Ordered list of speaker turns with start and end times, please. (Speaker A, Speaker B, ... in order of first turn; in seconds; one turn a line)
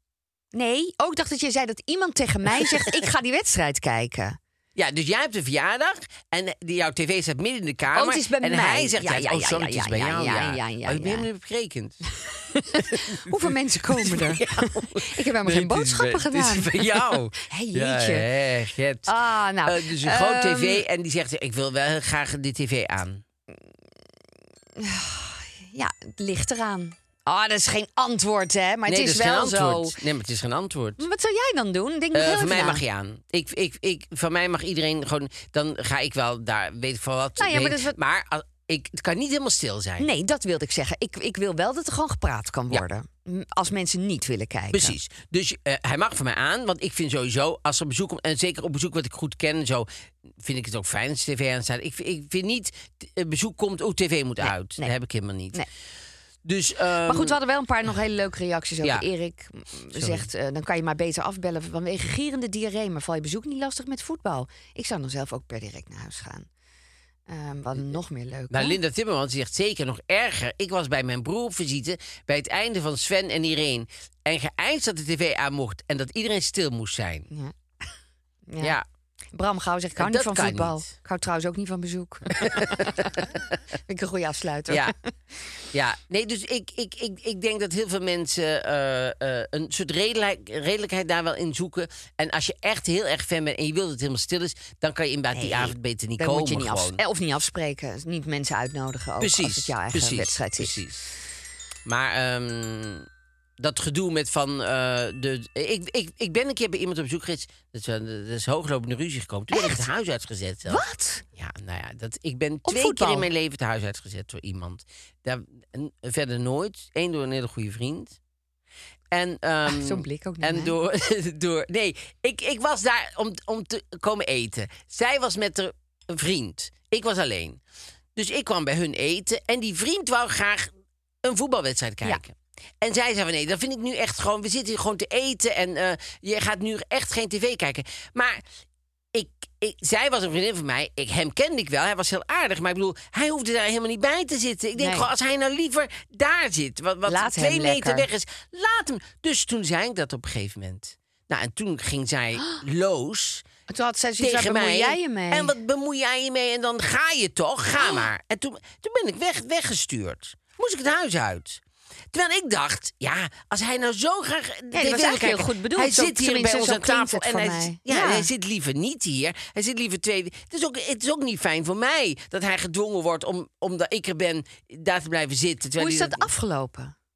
Speaker A: 0.5-4.4
Speaker B: 4.8-12.0
Speaker A: 7.9-11.3
Speaker A: 12.2-18.2
Speaker B: 12.9-23.2
Speaker A: 19.1-20.8
Speaker A: 24.8-30.0
Speaker B: 28.9-31.0
Speaker A: 31.0-32.8
Speaker B: 32.1-40.1
Speaker A: 37.4-38.0
Speaker A: 40.0-45.0
Speaker B: 44.7-49.9
Speaker B: 50.4-55.6
Speaker A: 54.4-54.9
Speaker B: 56.4-57.4
Speaker A: 57.0-66.5
Speaker B: 59.9-60.3
Speaker A: 67.3-68.8
Speaker B: 68.5-77.3
Speaker A: 78.5-78.8
Speaker A: 79.3-83.3
Speaker B: 80.0-80.8
Speaker B: 82.3-83.3
Speaker A: 83.9-84.9
Speaker B: 85.7-97.0
Speaker A: 95.3-100.8
Speaker B: 99.2-101.1
Speaker B: 101.8-103.1
Speaker B: 103.6-118.2
Speaker A: 109.5-109.9
Speaker A: 110.7-111.2
Speaker A: 112.7-113.3
Speaker B: 119.1-127.6
Speaker A: 119.7-120.7
Speaker B: 128.2-130.7
Speaker B: 131.2-138.4
Speaker B: 139.1-153.4
Speaker A: 144.8-145.1
Speaker A: 147.0-148.1
Speaker A: 153.7-155.5
Speaker B: 154.2-176.3
Speaker A: 157.8-158.0
Speaker A: 164.7-168.3
Speaker A: 175.8-176.9